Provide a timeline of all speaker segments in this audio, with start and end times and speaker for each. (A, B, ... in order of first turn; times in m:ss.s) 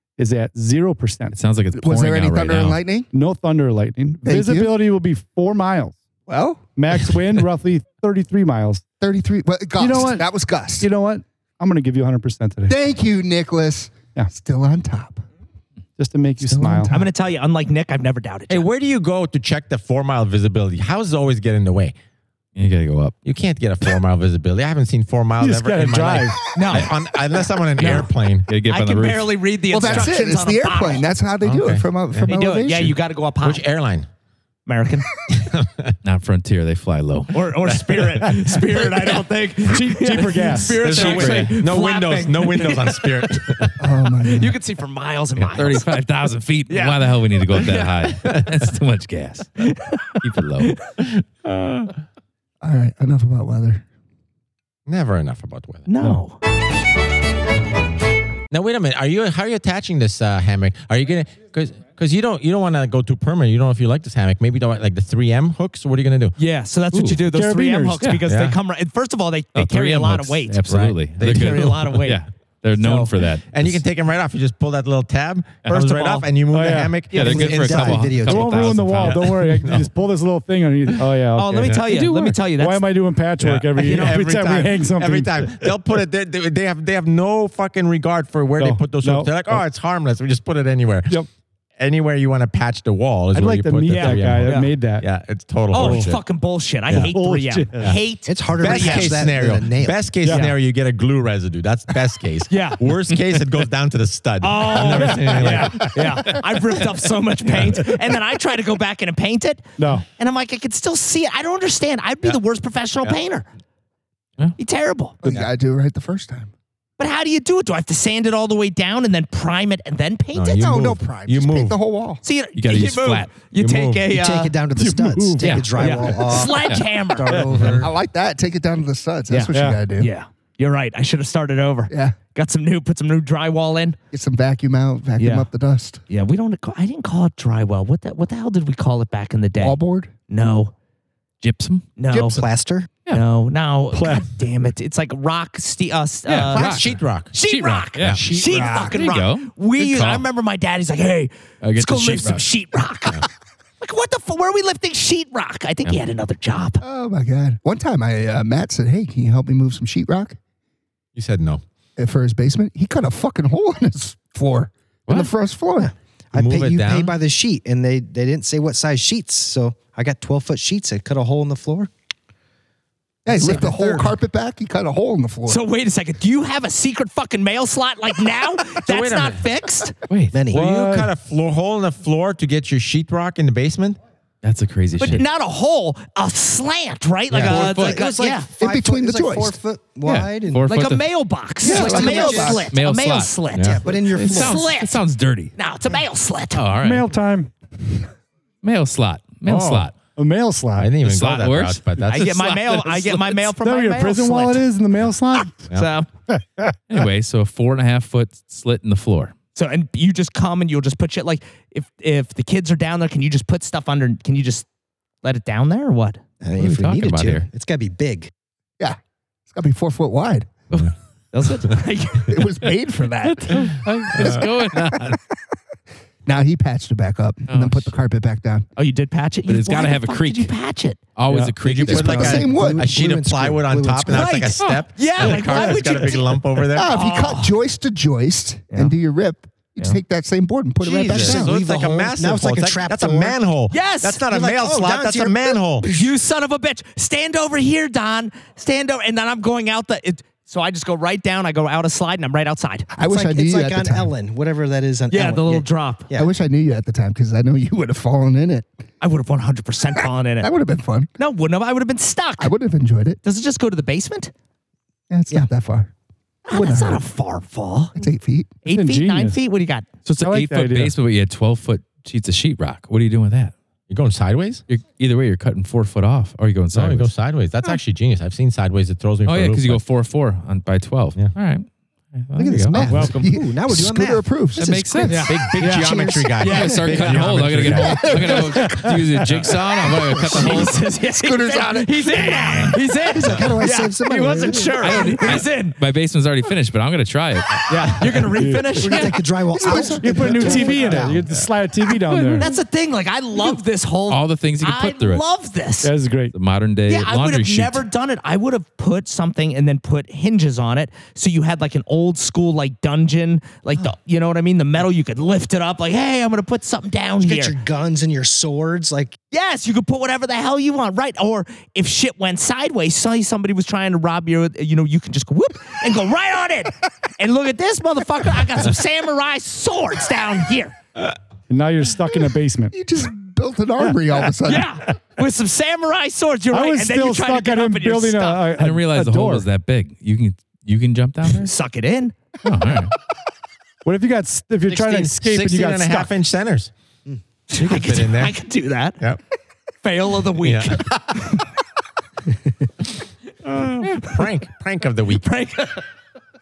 0:00.2-0:01.4 A
0:01.3-0:02.8 B
0:01.8-0:03.1 C
0:03.1-0:06.0 A
0:04.2-0:04.8 C
0:06.3-0:06.6 C
0:06.8-0:08.8 A
0:09.0-0:10.9 C
0:09.8-0:12.8 A
0:12.7-0:15.2 C
0:16.0-0:16.9 A
0:16.5-0:16.9 D
0:16.9-0:18.7 E
0:18.5-0:21.9 F
0:22.6-0:23.1 B
0:23.2-0:28.5 F
0:25.4-0:26.4 A
0:26.5-0:27.0 E
0:27.8-0:28.1 E
0:27.8-0:30.1 B
0:28.6-0:31.1 E
0:29.7-0:32.9 C
0:31.4-0:34.1 F
0:32.2-0:33.7 E
0:34.6-0:35.1 E
0:35.3-0:35.9 F
0:36.0-0:37.5 B
0:37.3-0:43.4 E
0:37.7-0:38.3 F
0:39.6-0:41.0 A
0:40.3-0:43.8 F
0:40.9-0:41.6 B
0:43.8-0:44.6 C
0:44.2-0:46.0 E
0:45.6-0:49.5 B
0:46.7-0:47.9 E
0:48.2-0:48.6 F
0:49.6-0:50.8 E
0:50.2-0:50.8 B
0:51.4-0:51.9 F
0:52.6-0:53.8 C
0:54.9-0:55.9 F
0:55.9-0:56.4 E
0:58.5-1:06.3 F
1:06.4-1:12.2 E
1:06.9-1:07.2 B
1:07.3-1:08.0 A
1:08.2-1:08.6 F
1:09.6-1:13.8 B
1:10.7-1:11.9 F
1:12.8-1:13.1 E
1:13.5-1:18.1 F
1:15.7-1:16.3 E
1:16.5-1:16.9 A
1:17.1-1:17.5 E
1:17.2-1:19.3 B
1:17.2-1:19.0 D
1:18.2-1:21.8 A
1:19.0-1:19.9 F
1:21.3-1:22.9 E
1:21.6-1:21.9 F
1:21.9-1:22.4 B
1:22.6-1:25.7 A
1:23.4-1:31.2 F
1:23.8-1:24.2 E
1:28.6-1:29.6 A
1:31.8-1:36.2 F
1:33.3-1:35.1 A
1:33.8-1:34.7 E
1:35.7-1:39.2 E
1:35.7-1:36.2 A
1:36.9-1:37.1 F
1:37.0-1:37.9 A
1:38.2-1:40.4 D
1:38.6-1:46.2 F
1:40.2-1:40.6 A
1:42.5-1:42.8 E
1:44.4-1:53.5 E
1:44.7-1:45.7 A
1:49.8-1:50.0 A
1:54.6-1:55.2 E
1:55.2-1:56.5 C
1:57.0-2:00.7 E
2:00.3-2:01.8 F
2:00.6-2:02.2 C
2:02.2-2:04.6 E
2:02.5-2:03.3 B
2:03.6-2:04.1 F
2:04.1-2:06.7 D
2:04.8-2:05.5 A
2:05.4-2:07.5 E
2:07.2-2:10.1 C
2:07.2-2:07.8 A
2:07.5-2:07.9 F
2:09.3-2:14.0 E
2:09.5-2:09.8 A
2:11.9-2:12.2 C
2:14.1-2:16.0 C
2:15.2-2:15.5 E
2:16.1-2:20.7 E
2:19.6-2:20.1 C
2:21.4-2:21.8 B
2:22.0-2:22.4 E
2:22.1-2:22.5 C
2:22.3-2:23.0 D
2:23.1-2:33.2 E
2:23.9-2:24.3 A
2:26.3-2:30.3 B
2:26.5-2:27.4 F
2:28.0-2:28.3 F
2:28.1-2:28.8 D
2:28.5-2:28.9 C
2:31.6-2:32.5 B
2:33.8-2:36.8 E
2:36.8-2:40.4 C
2:41.2-2:41.6 F
2:42.0-2:45.9 C
2:45.8-2:51.9 D
2:46.3-2:47.2 F
2:53.2-2:55.6 C
2:53.3-2:54.2 D
2:55.4-3:00.0 E
2:58.9-2:59.4 F
3:00.1-3:00.5 B
3:00.3-3:00.6 D
3:00.4-3:04.0 F
3:00.5-3:01.1 A
3:04.4-3:05.2 B
3:05.0-3:08.5 E
3:07.3-3:10.7 D
3:07.4-3:08.0 B
3:08.6-3:09.6 C
3:10.0-3:11.9 B
3:10.7-3:15.0 E
3:11.6-3:12.7 C
3:11.6-3:12.8 D
3:12.6-3:15.5 B
3:13.5-3:13.8 F
3:13.6-3:14.7 D
3:15.6-3:16.6 E
3:16.5-3:17.1 B
3:16.8-3:17.5 A
3:18.6-3:19.9 B
3:19.4-3:19.9 F
3:20.2-3:20.9 A
3:20.8-3:22.3 F
3:21.0-3:23.4 B
3:22.0-3:24.7 E
3:23.6-3:25.7 A
3:25.3-3:26.1 E
3:26.3-3:27.0 A
3:26.9-3:29.3 B
3:29.6-3:34.7 E
3:35.2-3:36.2 E
3:36.4-3:38.3 D
3:36.6-3:37.5 B
3:39.5-3:40.5 C
3:41.3-3:42.4 E
3:42.3-3:45.2 C
3:43.2-3:45.2 B
3:44.1-3:44.5 F
3:46.2-3:48.6 C
3:47.5-3:47.9 B
3:48.8-3:51.0 E
3:49.4-3:50.6 B
3:51.2-3:52.4 B
3:51.3-3:51.6 A
3:51.6-3:54.6 D
3:51.8-3:52.8 C
3:51.8-3:56.9 F
3:54.1-3:57.6 E
3:54.6-3:55.9 B
3:56.7-4:01.6 C
3:58.7-3:59.0 E
4:00.8-4:03.4 D
4:01.1-4:05.9 F
4:03.7-4:04.3 E
4:04.3-4:06.1 D
4:05.8-4:12.9 E
4:12.9-4:14.1 C
4:13.0-4:16.3 D
4:15.1-4:16.1 E
4:16.1-4:18.7 C
4:19.0-4:20.5 E
4:20.0-4:21.1 C
4:21.2-4:22.5 E
4:22.4-4:23.2 C
4:23.2-4:24.3 E
4:25.1-4:25.9 C
4:26.5-4:27.9 E
4:26.5-4:27.0 C
4:27.9-4:28.5 C
4:28.6-4:29.9 E
4:28.7-4:29.4 A
4:30.0-4:33.5 B
4:30.2-4:30.9 A
4:33.9-4:34.6 F
4:34.7-4:37.1 B
4:36.7-4:39.8 F
4:39.2-4:43.2 B
4:42.4-4:45.3 C
4:42.8-4:45.1 D
4:42.9-4:43.2 A
4:44.6-4:45.3 B
4:45.1-4:45.4 E
4:45.1-4:48.8 F
4:45.6-4:45.9 A
4:45.6-4:47.3 D
4:46.4-4:50.8 B
4:46.4-4:46.8 E
4:47.8-4:48.3 C
4:50.2-4:55.8 E
4:51.1-4:54.6 C
4:53.2-4:55.1 D
4:54.8-4:57.9 B
4:57.7-4:59.8 E
4:58.3-4:58.7 A
4:58.7-5:01.3 D
4:59.5-5:01.0 C
5:00.0-5:02.6 A
5:02.1-5:05.9 E
5:04.1-5:05.2 B
5:05.8-5:06.3 A
5:06.3-5:07.8 B
5:06.9-5:17.6 E
5:17.2-5:19.2 D
5:19.3-5:30.8 E
5:31.5-5:32.7 A
5:32.7-5:34.7 C
5:33.8-5:34.3 A
5:34.4-5:38.6 E
5:36.5-5:39.5 A
5:38.6-5:41.5 B
5:41.3-5:42.1 E
5:42.4-5:42.9 B
5:43.8-5:46.1 A
5:44.7-5:46.7 F
5:47.5-5:49.0 E
5:47.6-5:48.4 F
5:49.8-5:51.4 E
5:50.4-5:51.0 F
5:53.4-5:53.9 E
5:53.8-5:55.4 F
5:55.1-5:55.8 E